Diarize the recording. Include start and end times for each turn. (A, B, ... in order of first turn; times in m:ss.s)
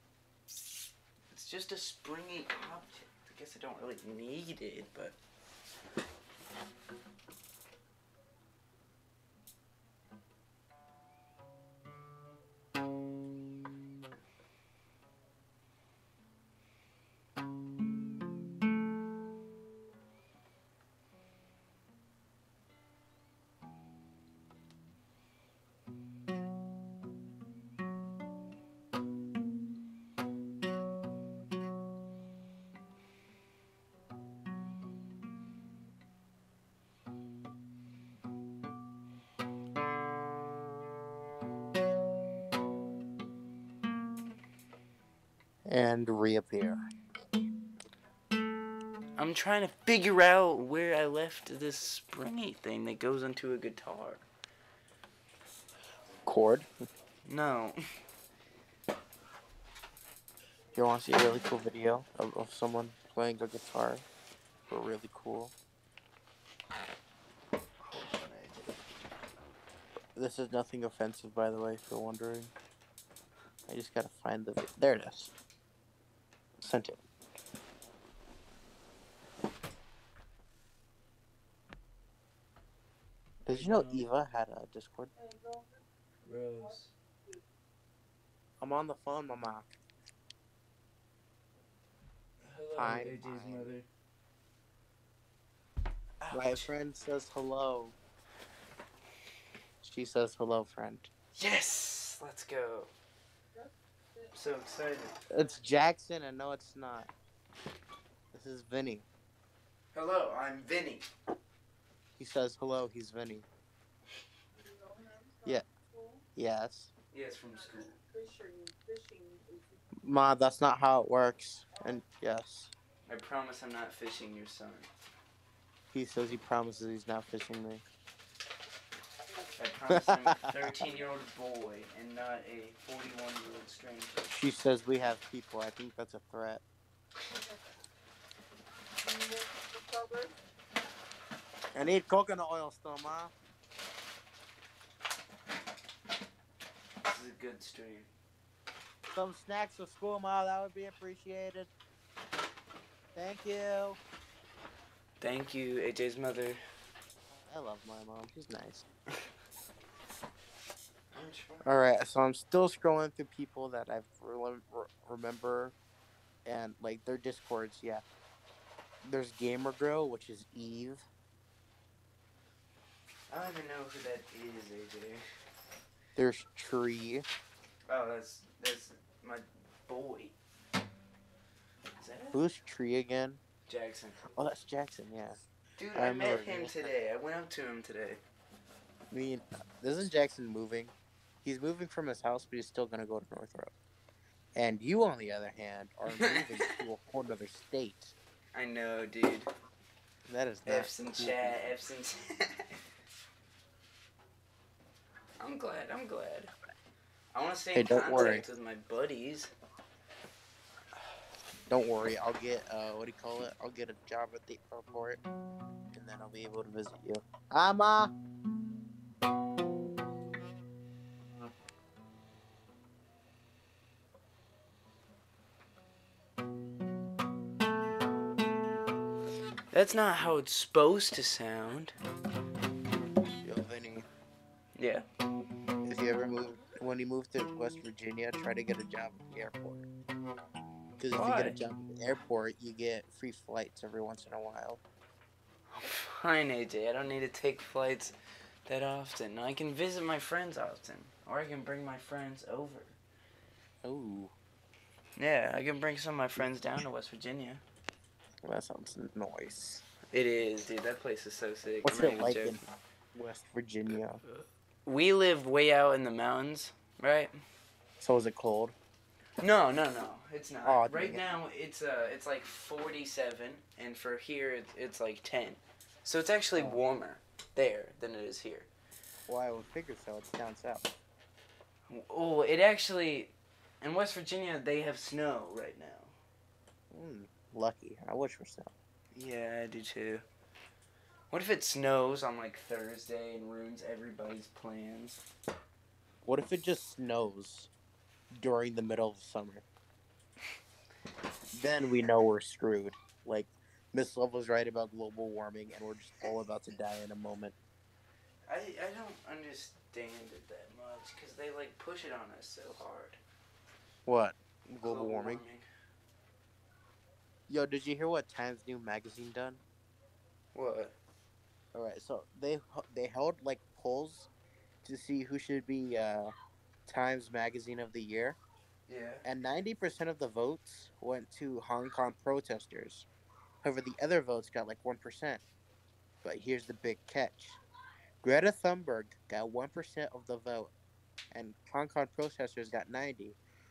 0:01.3-0:05.2 A
0:45.6-0:46.8 B
0:49.2-0:54.2 A
0:56.2-0:56.7 B
0:57.2-0:57.8 A
1:00.8-1:04.0 B
1:04.7-1:05.5 B
1:07.9-1:08.8 A
1:10.2-1:12.5 B
1:13.7-1:15.3 B
1:16.6-1:17.0 B
1:23.4-1:24.1 A
1:23.5-1:25.1 B
1:26.2-1:26.9 A
1:28.6-1:29.7 B
1:32.4-1:33.9 A
1:32.8-1:33.7 B
1:36.2-1:36.7 A
1:36.3-1:38.0 B
1:39.8-1:41.1 B
1:41.4-1:42.9 A
1:44.3-1:45.2 A
1:45.3-1:47.1 B
1:48.3-1:49.1 B
1:49.9-1:51.1 A
1:52.2-1:53.5 B
1:56.4-1:56.9 B
1:57.1-1:58.0 A
2:00.0-2:02.7 B
2:03.1-2:04.9 A
2:05.9-2:07.8 B
2:09.6-2:14.3 A
2:09.9-2:10.5 B
2:14.3-2:16.6 B
2:21.7-2:23.3 B
2:27.1-2:28.1 A
2:29.1-2:31.7 B
2:33.2-2:34.0 B
2:35.2-2:36.6 A
2:37.4-2:38.8 B
2:41.1-2:41.6 A
2:41.6-2:45.8 B
2:46.4-2:48.0 B
2:49.0-2:51.1 B
2:53.3-2:55.2 A
2:56.2-2:57.2 B
2:57.9-3:00.4 A
3:02.0-3:02.4 A
3:02.3-3:03.4 B
3:03.7-3:04.4 A
3:04.4-3:05.4 B
3:05.8-3:08.2 A
3:06.0-3:06.9 B
3:09.1-3:13.7 B
3:14.6-3:18.1 B
3:16.1-3:16.7 A
3:18.6-3:19.5 A
3:20.3-3:21.6 B
3:20.7-3:22.7 A
3:25.4-3:26.5 A
3:27.3-3:29.5 A
3:27.8-3:28.4 B
3:31.7-3:35.2 B
3:35.9-3:38.1 B
3:49.7-3:52.0 A
3:53.4-3:54.1 B
3:54.8-3:55.0 A
3:55.8-3:59.9 B
4:01.0-4:04.8 B
4:01.1-4:01.6 A
4:05.7-4:08.2 A
4:08.7-4:13.0 A
4:13.8-4:14.3 B
4:15.2-4:17.6 A
4:18.4-4:19.8 B
4:20.1-4:22.6 A
4:21.8-4:22.6 B
4:23.2-4:24.2 B
4:24.3-4:27.4 A
4:28.0-4:28.8 B
4:29.4-4:38.7 A
4:30.6-4:31.3 B
4:39.3-4:40.9 B
4:41.9-4:46.1 A
4:46.9-4:48.7 B
4:49.1-4:50.2 A
4:51.3-4:55.2 A
4:56.2-4:57.7 B
4:58.4-4:59.6 B
5:01.5-5:07.6 B
5:08.5-5:13.2 A
5:14.1-5:15.4 B
5:14.8-5:15.6 A
5:17.5-5:19.6 B
5:20.5-5:21.0 A
5:21.7-5:24.3 B
5:24.8-5:26.3 B
5:26.9-5:28.4 B
5:28.9-5:29.2 A
5:29.2-5:33.1 B
5:33.6-5:35.4 B
5:36.2-5:37.6 B
5:38.2-5:40.7 B
5:41.3-5:43.4 B